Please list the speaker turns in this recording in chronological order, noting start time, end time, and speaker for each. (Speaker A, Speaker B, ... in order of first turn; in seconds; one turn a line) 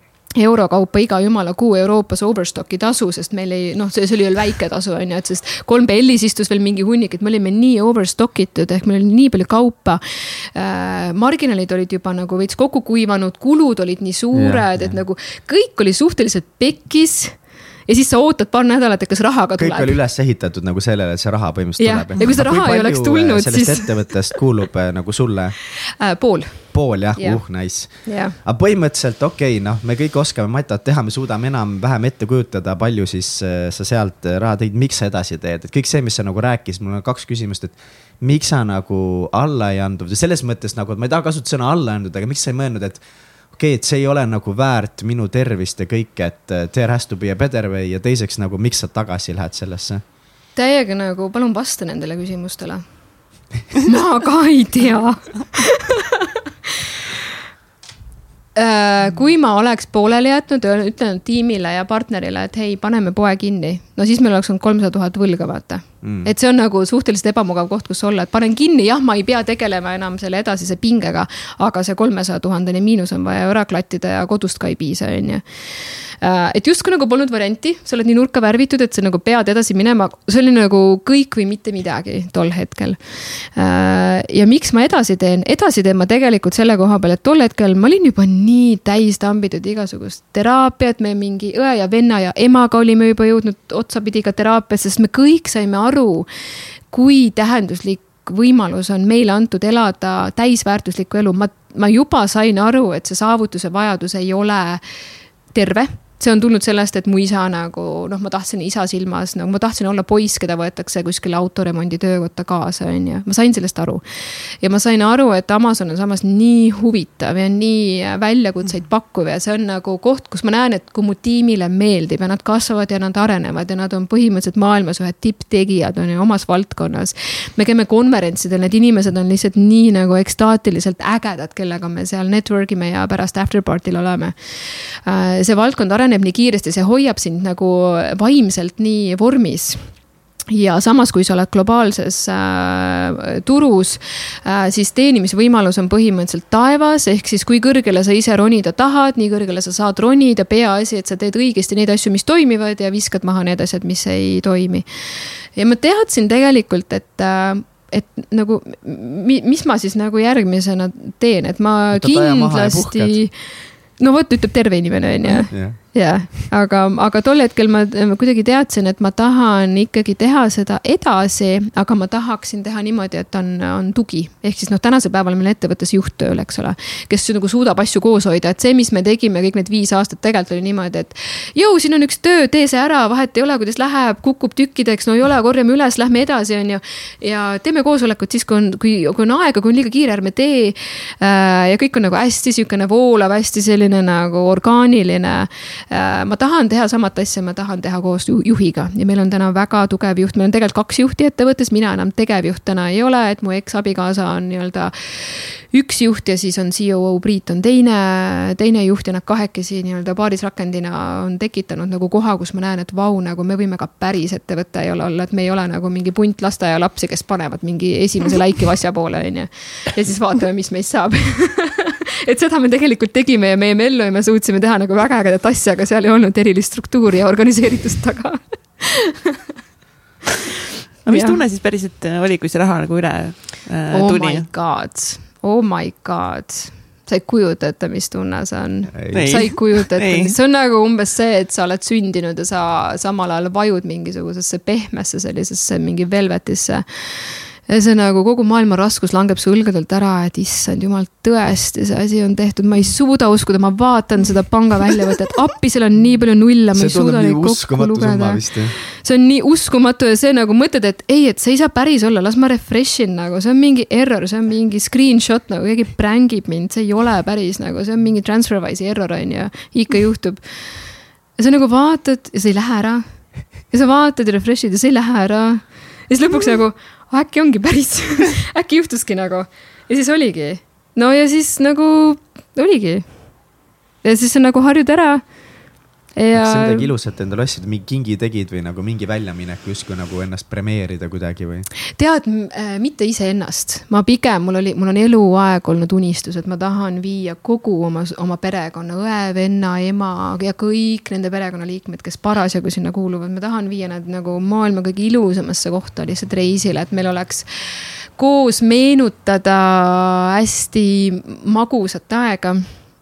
Speaker A: 0.4-10.0
Speaker A: 10.6-20.0
Speaker B: 14.3-15.0
Speaker B: 19.6-25.6
Speaker A: 21.8-24.2
Speaker A: 26.0-28.4
Speaker B: 26.7-50.0
Speaker A: 50.6-52.8
Speaker A: 53.7-56.3
Speaker A: 58.6-75.5
Speaker B: 66.0-66.3
Speaker A: 76.1-83.0
Speaker A: 83.5-96.3
Speaker A: 96.9-104.8
Speaker A: 105.5-114.0
Speaker A: 114.6-134.3
Speaker A: 135.0-139.8
Speaker A: 140.5-154.8
Speaker A: 155.6-163.3
Speaker B: 161.9-163.2
Speaker A: 164.0-229.4
Speaker B: 165.5-166.5
Speaker C: 231.1-234.5
Speaker A: 231.1-231.4
Speaker A: 233.9-270.4
Speaker B: 238.9-239.5
Speaker C: 239.1-240.3
Speaker B: 256.8-258.8
Speaker A: 271.4-273.0
Speaker A: 273.7-283.1
Speaker A: 284.0-285.2
Speaker A: 286.2-286.9
Speaker B: 286.3-291.7
Speaker A: 292.0-307.5
Speaker A: 308.2-312.7